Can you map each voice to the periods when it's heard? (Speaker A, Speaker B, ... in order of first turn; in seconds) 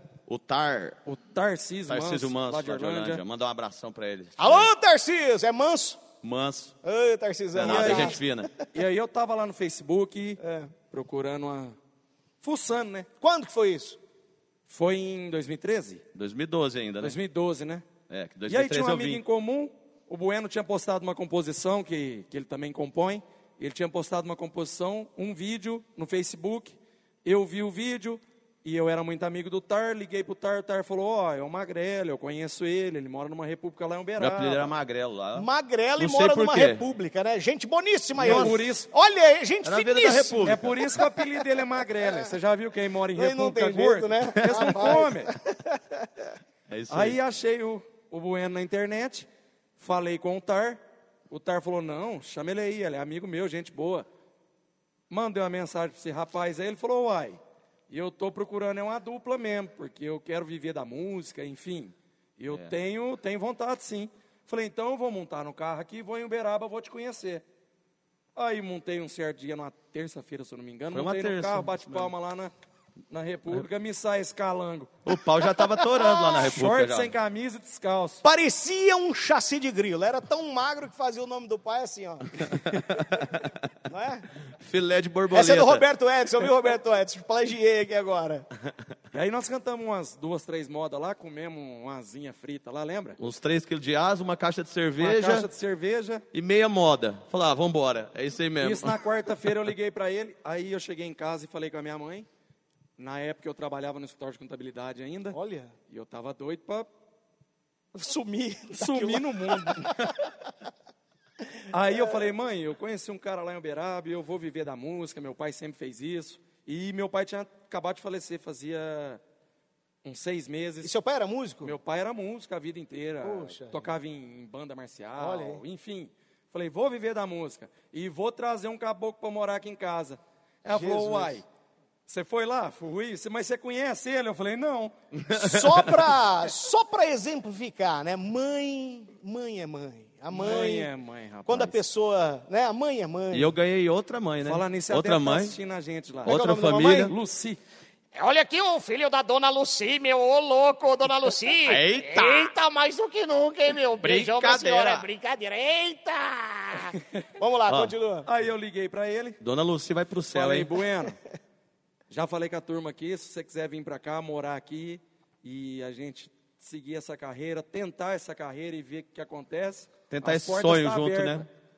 Speaker A: 0.3-1.0, 1.9-4.7, 6.2-6.7, 7.5-8.5, 16.1-17.2, 18.1-19.2, 34.2-35.5, 36.0-36.8, 38.2-38.5, 39.6-40.7, 46.7-47.2, 62.5-62.7, 70.9-72.1, 75.0-77.1, 82.5-83.7, 84.6-85.8, 93.2-95.5, 96.3-99.0, 135.1-136.1, 143.3-145.6, 146.2-147.1, 151.6-152.5, 154.0-155.1, 157.7-157.9, 159.4-160.7, 170.1-171.5
Speaker B: 1.1-3.2, 7.6-8.2, 8.7-10.4, 10.9-11.8, 12.4-13.1, 14.7-16.0, 17.0-17.8, 18.5-34.7, 38.2-38.9, 40.4-45.3, 46.9-49.3, 49.8-54.0, 55.1-67.4, 68.3-72.5, 73.1-74.9, 76.4-78.2, 89.1-93.2, 95.0-96.2, 98.6-102.3, 103.0-105.4, 105.9-106.9, 108.7-110.2, 111.7-119.2, 120.0-120.9, 121.6-131.4, 132.1-134.9, 140.3-141.8, 144.4-146.3, 147.0-147.6, 158.2-159.4, 160.3-161.2, 162.1-171.4
Speaker C: 4.4-6.0, 6.8-8.6, 10.4-10.7, 13.2-14.0, 35.3-42.3, 43.1-46.1, 75.5-76.5, 78.2-82.6, 83.9-84.3, 85.3-88.5, 105.3-105.7, 107.9-110.1, 120.8-121.7, 123.2-123.9, 125.2-125.6, 130.7-131.4, 135.3-140.9, 141.4-143.5, 146.3-147.1, 157.4-158.3
Speaker D: 148.1-157.0